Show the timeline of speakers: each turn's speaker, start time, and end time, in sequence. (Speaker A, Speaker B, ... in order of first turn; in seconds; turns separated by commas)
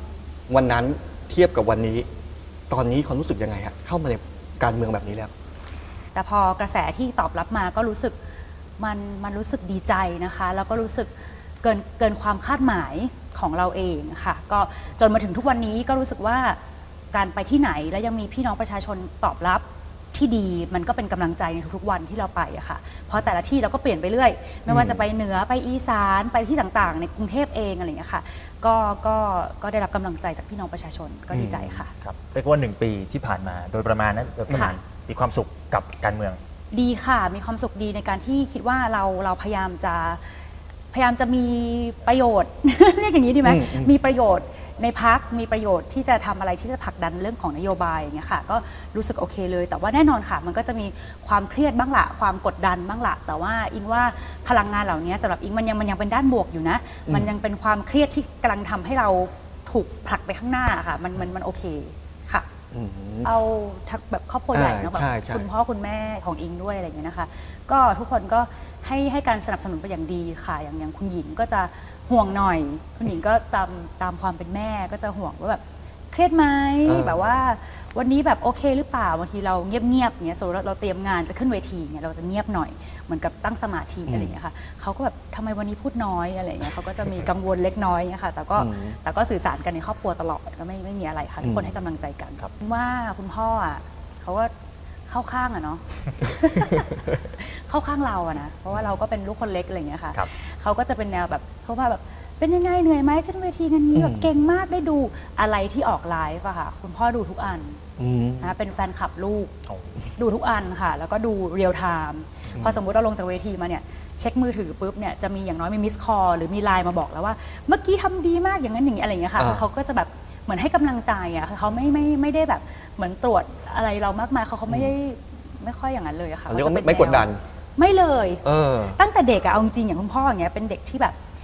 Speaker A: 0.5-2.1, Speaker A: 2.7-5.3, Speaker B: 6.1-8.2, Speaker B: 8.8-11.1, Speaker B: 11.6-16.6, Speaker B: 17.1-31.9, Speaker A: 24.7-25.0, Speaker A: 31.3-31.8, Speaker C: 32.0-36.4, Speaker B: 34.5-34.8, Speaker B: 36.7-40.2, Speaker B: 40.9-62.5, Speaker A: 43.4-43.9, Speaker A: 62.7-63.3, Speaker B: 63.2-75.6, Speaker A: 64.5-65.4, Speaker B: 76.1-94.5, Speaker A: 76.8-77.3, Speaker A: 84.1-84.3, Speaker A: 88.5-89.0, Speaker A: 91.4-91.7, Speaker B: 95.1-107.8, Speaker A: 103.9-104.3, Speaker A: 108.0-108.5, Speaker B: 108.4-109.5, Speaker C: 109.7-110.0, Speaker B: 110.2-131.1, Speaker A: 119.4-119.7, Speaker A: 126.5-127.4, Speaker A: 128.4-129.0